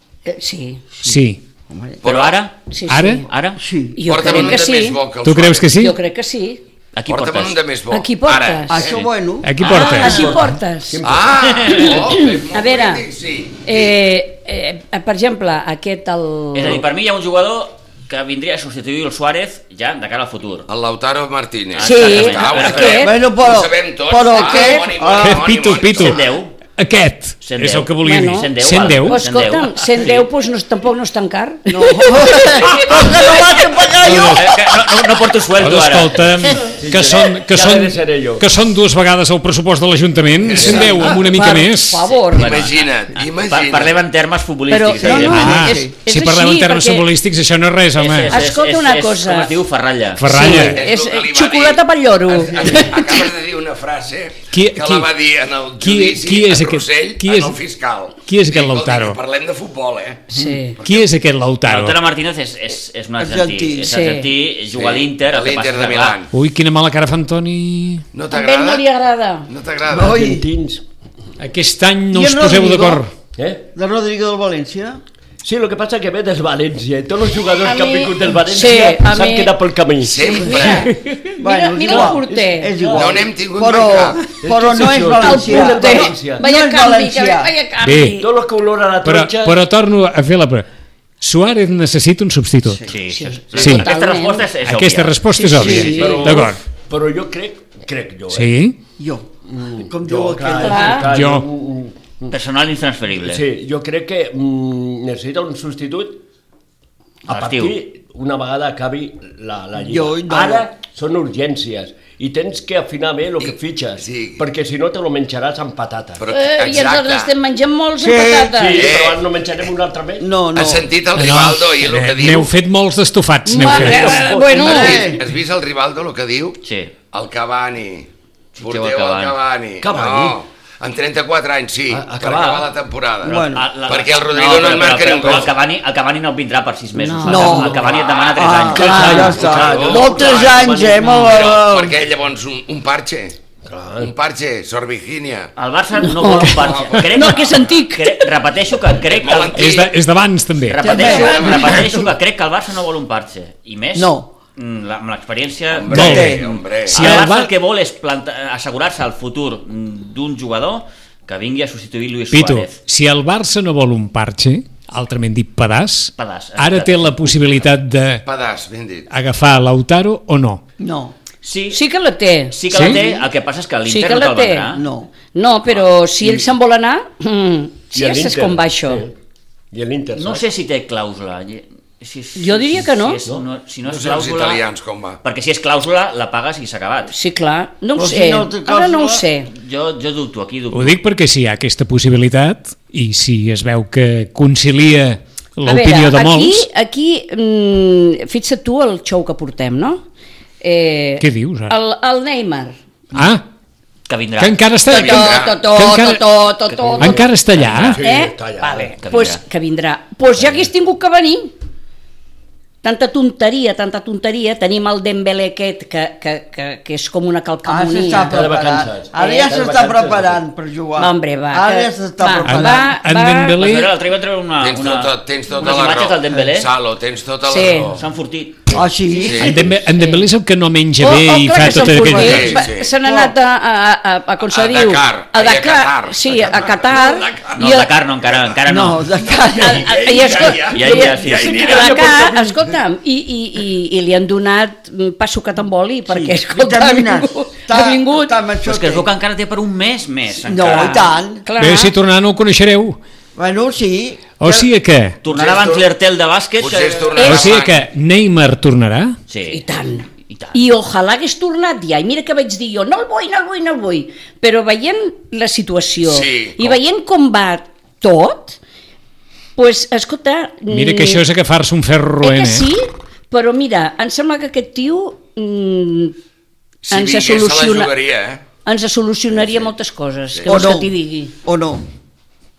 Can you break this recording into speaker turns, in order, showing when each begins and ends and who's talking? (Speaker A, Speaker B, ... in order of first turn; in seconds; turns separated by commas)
Speaker A: 0.3-0.9, Speaker B: 1.0-1.4, Speaker C: 1.7-2.0, Speaker D: 2.0-2.4, Speaker E: 2.0-2.7, Speaker A: 2.7-3.3, Speaker B: 2.9-3.3, Speaker E: 3.3-3.6, Speaker C: 3.6-4.6, Speaker A: 4.0-5.0, Speaker D: 4.1-5.7, Speaker B: 5.2-6.0, Speaker A: 5.7-6.6, Speaker E: 6.9-7.6, Speaker D: 7.1-9.0, Speaker A: 7.9-8.9, Speaker C: 8.7-9.6, Speaker E: 8.8-9.1, Speaker B: 9.4-10.4, Speaker A: 9.6-11.0, Speaker E: 9.7-10.3, Speaker F: 10.0-11.7, Speaker D: 11.0-14.0, Speaker E: 11.5-11.9, Speaker A: 11.8-13.1, Speaker A: 13.7-16.8, Speaker E: 16.5-20.7, Speaker D: 20.7-26.2, Speaker E: 21.8-23.1, Speaker A: 21.8-23.2, Speaker C: 22.9-25.5, Speaker B: 25.2-26.2, Speaker E: 25.9-26.6, Speaker B: 26.8-29.2, Speaker E: 27.4-30.3, Speaker A: 28.0-33.5, Speaker C: 31.7-34.7, Speaker B: 34.0-34.5, Speaker E: 34.1-36.2, Speaker B: 35.6-42.1, Speaker F: 36.8-38.5, Speaker D: 40.5-41.2, Speaker A: 40.6-42.6, Speaker E: 42.2-45.7, Speaker D: 42.3-44.0, Speaker A: 44.7-47.1, Speaker C: 45.0-46.0, Speaker B: 45.3-48.4, Speaker E: 48.0-50.6, Speaker A: 48.3-49.6, Speaker B: 50.2-50.8, Speaker A: 50.3-53.3, Speaker D: 50.4-61.1, Speaker B: 54.5-55.1, Speaker B: 55.8-57.6, Speaker B: 58.3-59.2, Speaker A: 60.3-60.8, Speaker B: 60.8-62.0, Speaker E: 61.6-66.2, Speaker C: 63.2-63.9, Speaker A: 63.9-64.3, Speaker D: 64.7-66.3, Speaker B: 66.3-68.0, Speaker D: 68.1-68.8, Speaker A: 68.3-69.5, Speaker D: 69.5-70.2, Speaker C: 69.9-70.5, Speaker F: 70.0-70.8, Speaker B: 71.4-73.1, Speaker C: 72.1-73.0, Speaker F: 73.4-73.7, Speaker C: 73.7-75.0, Speaker F: 75.4-83.1, Speaker A: 77.6-79.6, Speaker D: 80.0-80.9, Speaker A: 80.3-82.8, Speaker C: 81.4-87.5, Speaker D: 82.9-84.2, Speaker F: 84.3-86.4, Speaker A: 85.2-88.3, Speaker B: 87.8-88.2, Speaker F: 88.1-89.6, Speaker B: 89.0-90.7, Speaker B: 91.2-92.8, Speaker C: 92.7-92.9, Speaker E: 92.9-95.9, Speaker A: 93.1-94.5, Speaker B: 93.5-93.9, Speaker B: 94.6-96.6, Speaker A: 95.4-96.4, Speaker C: 95.5-96.4, Speaker F: 95.8-98.5, Speaker B: 98.3-98.8, Speaker C: 99.0-101.1, Speaker F: 99.5-102.3, Speaker A: 100.6-101.1, Speaker B: 101.1-101.5, Speaker E: 102.3-103.4, Speaker F: 103.2-106.2, Speaker E: 107.3-107.8, Speaker F: 107.3-116.2, Speaker C: 109.8-110.7, Speaker D: 113.4-114.5, Speaker D: 116.2-117.3, Speaker A: 116.3-118.8, Speaker C: 118.0-118.5, Speaker F: 118.5-120.3, Speaker D: 118.8-119.2, Speaker C: 120.2-120.9, Speaker D: 120.5-122.5, Speaker B: 121.2-124.2, Speaker A: 123.5-125.1, Speaker F: 123.7-125.0, Speaker C: 124.2-125.2, Speaker D: 124.5-126.6, Speaker E: 126.6-126.9, Speaker D: 127.1-135.5, Speaker E: 128.6-129.4, Speaker F: 129.8-130.4, Speaker F: 131.9-132.7, Speaker C: 133.2-133.7, Speaker E: 133.4-139.4, Speaker A: 137.1-137.5, Speaker C: 137.2-142.0, Speaker F: 137.3-138.0, Speaker D: 137.8-138.4, Speaker F: 138.7-141.2, Speaker A: 138.8-139.3, Speaker D: 139.3-143.4, Speaker A: 141.0-141.4, Speaker F: 143.7-144.1, Speaker D: 144.0-145.5, Speaker E: 145.6-149.8, Speaker A: 146.0-148.3, Speaker D: 146.5-147.4, Speaker D: 149.1-149.9, Speaker B: 149.6-151.1, Speaker E: 150.7-162.8, Speaker C: 150.8-152.1, Speaker A: 150.9-151.2, Speaker D: 151.0-151.9, Speaker C: 154.0-154.3, Speaker D: 155.7-157.2, Speaker B: 155.9-157.5, Speaker C: 155.9-156.4, Speaker B: 162.3-168.2, Speaker E: 166.2-167.6, Speaker D: 168.2-169.1, Speaker B: 169.1-170.6, Speaker C: 170.8-171.2, Speaker E: 171.4-171.8, Speaker A: 171.7-173.2, Speaker E: 172.5-174.8, Speaker B: 172.7-173.0, Speaker A: 173.9-179.1, Speaker C: 174.8-175.2, Speaker F: 176.2-176.5, Speaker F: 177.9-179.2, Speaker F: 179.7-180.5, Speaker E: 180.2-184.6, Speaker A: 182.4-183.2, Speaker D: 183.8-185.2, Speaker E: 185.2-187.1, Speaker A: 187.1-189.5, Speaker C: 187.9-189.2, Speaker E: 189.5-191.0, Speaker B: 190.7-196.7, Speaker A: 195.7-200.1, Speaker A: 200.6-202.8, Speaker B: 201.2-201.7, Speaker B: 203.1-203.4, Speaker E: 204.1-204.8, Speaker B: 204.4-206.2, Speaker A: 204.9-207.3, Speaker D: 204.9-205.6, Speaker E: 206.7-208.0, Speaker F: 207.0-207.3, Speaker B: 207.0-208.0, Speaker F: 207.8-208.9, Speaker A: 208.0-211.5, Speaker E: 209.0-209.4, Speaker A: 212.8-218.4, Speaker C: 217.7-223.0, Speaker F: 218.2-220.4, Speaker A: 219.1-219.6, Speaker A: 221.0-223.6, Speaker B: 222.4-223.9, Speaker E: 223.6-226.7, Speaker D: 224.6-228.0, Speaker A: 227.5-227.9, Speaker E: 227.9-228.8, Speaker C: 228.7-229.8, Speaker D: 229.1-229.6, Speaker B: 229.4-232.6, Speaker A: 229.9-230.3, Speaker A: 231.0-237.9, Speaker C: 231.9-233.3, Speaker D: 232.1-232.9, Speaker D: 234.5-238.6, Speaker E: 237.6-239.1, Speaker C: 238.7-239.9, Speaker D: 239.2-242.0, Speaker A: 239.5-248.4, Speaker E: 240.7-241.7, Speaker F: 240.8-242.8, Speaker C: 246.1-249.1, Speaker E: 248.6-251.1, Speaker C: 250.4-251.5, Speaker A: 251.5-251.9, Speaker B: 251.6-253.0, Speaker C: 253.4-254.7, Speaker B: 254.4-255.2, Speaker E: 255.2-257.2, Speaker D: 255.3-255.9, Speaker D: 256.6-257.9, Speaker A: 257.2-257.6, Speaker B: 257.2-259.2, Speaker E: 259.3-259.6, Speaker A: 259.5-268.6, Speaker E: 260.3-260.6, Speaker D: 266.0-266.8, Speaker A: 269.6-271.3, Speaker B: 270.7-272.7, Speaker A: 272.2-276.2, Speaker D: 276.9-278.4, Speaker A: 276.9-277.9, Speaker A: 278.7-281.3, Speaker D: 279.3-279.7, Speaker D: 280.3-280.7, Speaker C: 280.5-281.8